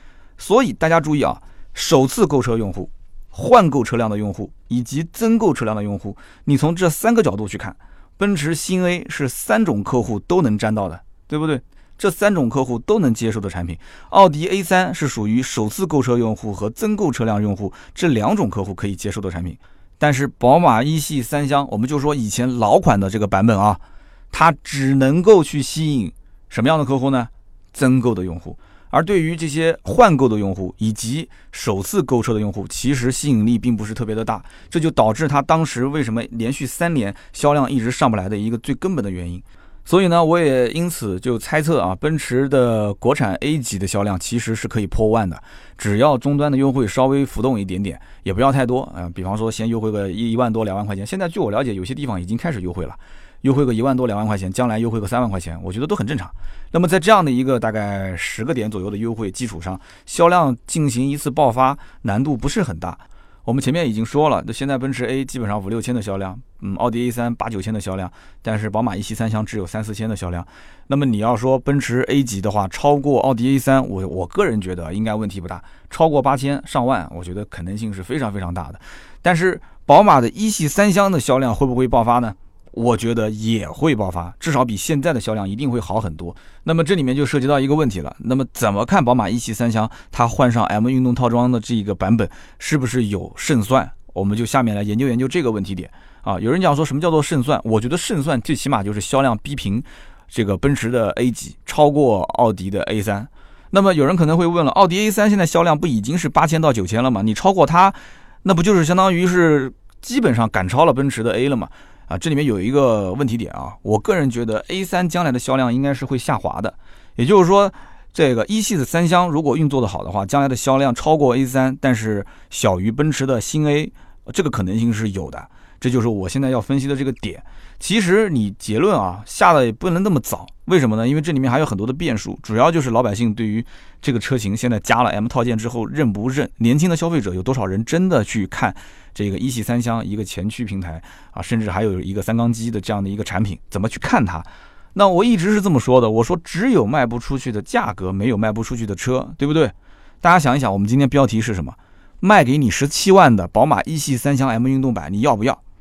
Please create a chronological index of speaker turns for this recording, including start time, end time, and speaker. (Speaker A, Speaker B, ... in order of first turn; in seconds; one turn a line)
Speaker A: 0.4-23.8
Speaker A: 24.3-155.6